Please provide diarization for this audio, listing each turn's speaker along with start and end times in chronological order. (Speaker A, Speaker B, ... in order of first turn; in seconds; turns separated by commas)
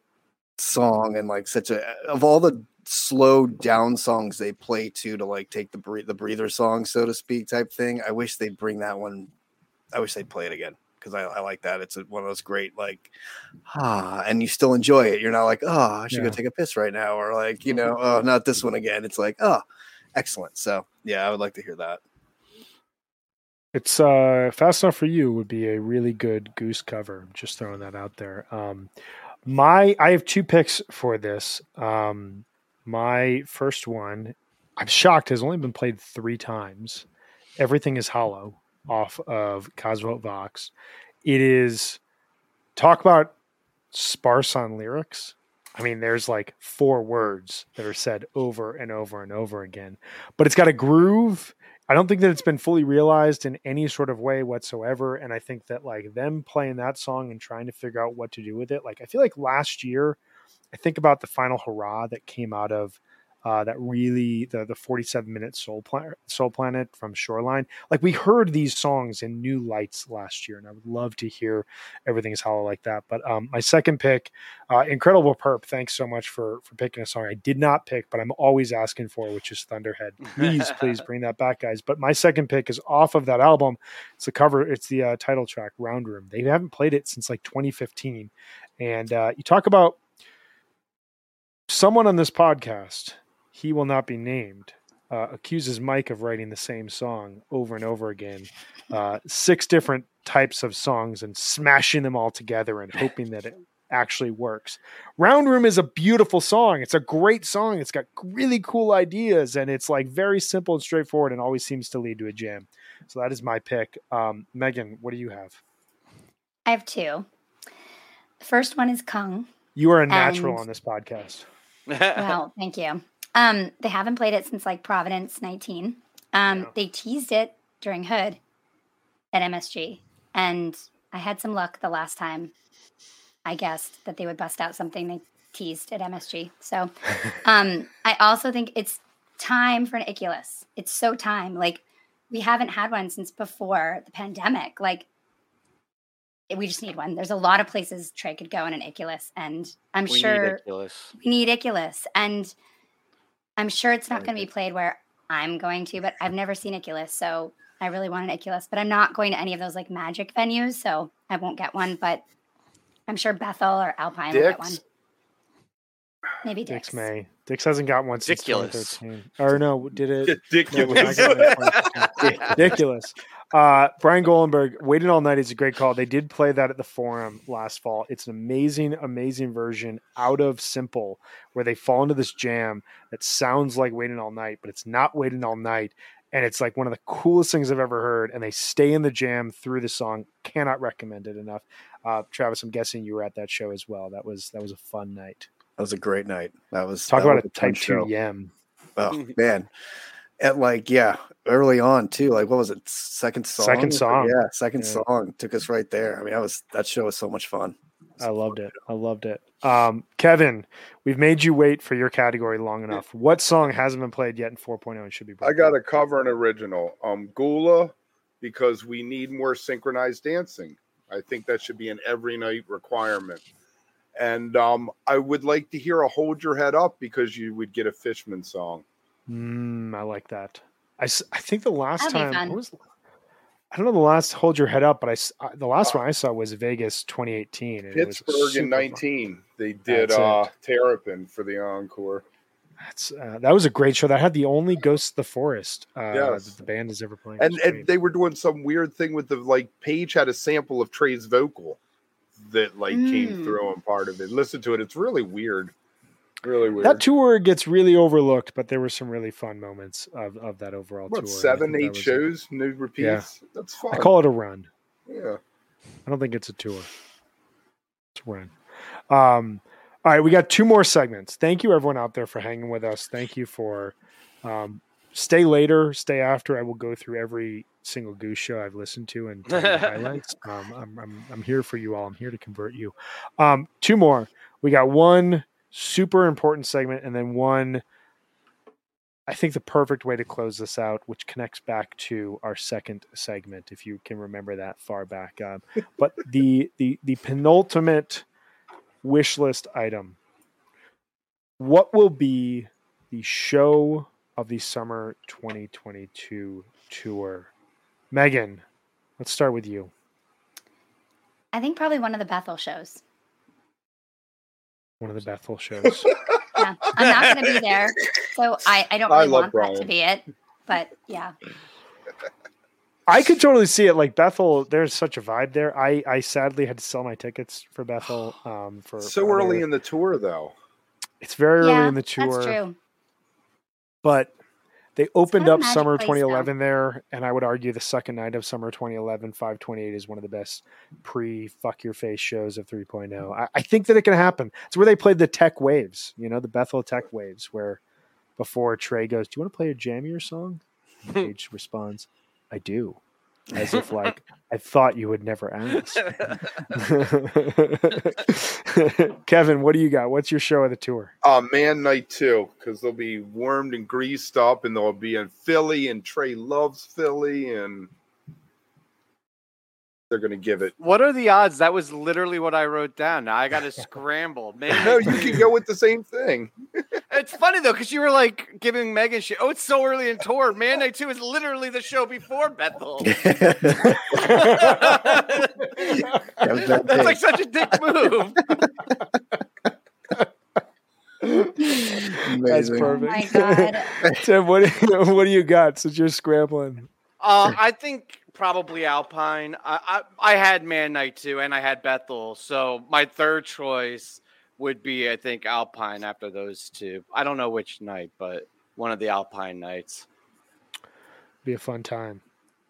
Speaker A: 0.6-9.3, Speaker A: 9.9-13.1, Speaker A: 13.7-19.6, Speaker B: 16.1-16.4, Speaker A: 20.1-22.0, Speaker B: 23.7-28.9, Speaker B: 29.4-37.1, Speaker B: 37.6-40.7, Speaker B: 41.2-42.0, Speaker B: 42.8-43.3, Speaker B: 43.9-60.2, Speaker B: 60.7-90.0, Speaker B: 91.7-115.6, Speaker C: 116.7-117.3, Speaker C: 118.4-119.5, Speaker B: 119.8-121.5, Speaker C: 120.1-120.6, Speaker D: 121.9-122.4, Speaker C: 122.2-128.4, Speaker B: 126.5-126.7, Speaker C: 129.3-132.5, Speaker C: 133.4-145.1, Speaker C: 146.5-150.6, Speaker D: 150.1-151.1, Speaker C: 151.2-152.6, Speaker C: 153.6-162.2, Speaker C: 163.1-164.8, Speaker E: 164.3-164.8, Speaker C: 166.4-167.1, Speaker B: 166.7-195.5, Speaker D: 168.3-169.0, Speaker E: 170.2-172.0, Speaker D: 170.8-172.5, Speaker A: 195.8-198.1, Speaker B: 197.1-198.5, Speaker A: 199.0-199.7, Speaker A: 200.4-207.8, Speaker B: 203.6-205.0, Speaker B: 208.2-215.8, Speaker E: 215.4-223.5, Speaker E: 224.2-228.8, Speaker B: 229.3-232.8, Speaker C: 232.0-232.6, Speaker B: 233.7-239.0, Speaker E: 237.9-242.2, Speaker B: 239.9-240.5, Speaker B: 242.8-247.9, Speaker E: 246.1-246.5, Speaker E: 247.4-251.8, Speaker E: 252.4-255.7, Speaker C: 252.9-253.6, Speaker E: 256.4-257.0, Speaker B: 256.8-262.3, Speaker E: 261.1-264.1, Speaker B: 263.0-263.3, Speaker B: 263.9-264.7, Speaker E: 265.1-265.4, Speaker B: 266.1-266.9, Speaker B: 268.1-268.6, Speaker B: 269.1-287.8, Speaker D: 279.5-280.1, Speaker B: 289.3-298.2, Speaker B: 299.0-300.2, Speaker B: 301.6-307.5, Speaker B: 308.1-308.6, Speaker B: 309.2-309.9, Speaker C: 311.5-313.0, Speaker B: 315.0-316.1, Speaker C: 316.6-321.4, Speaker E: 319.1-319.9, Speaker B: 323.1-329.7, Speaker E: 329.0-330.5, Speaker B: 331.2-332.6, Speaker C: 331.6-332.8, Speaker B: 334.0-334.3, Speaker B: 335.0-347.8, Speaker C: 335.3-336.5, Speaker B: 348.4-353.0, Speaker B: 353.6-356.1, Speaker D: 353.7-354.1, Speaker D: 356.0-356.6, Speaker B: 356.7-361.1, Speaker E: 361.2-367.9, Speaker E: 370.1-370.8, Speaker D: 370.8-375.4, Speaker E: 374.7-376.5, Speaker D: 377.1-383.2, Speaker A: 383.0-384.0, Speaker B: 383.8-385.2, Speaker D: 384.1-385.8, Speaker A: 386.4-387.3, Speaker D: 386.8-388.4, Speaker B: 391.2-396.9, Speaker A: 392.1-393.1, Speaker C: 392.8-393.9, Speaker D: 397.2-410.1, Speaker B: 411.4-412.2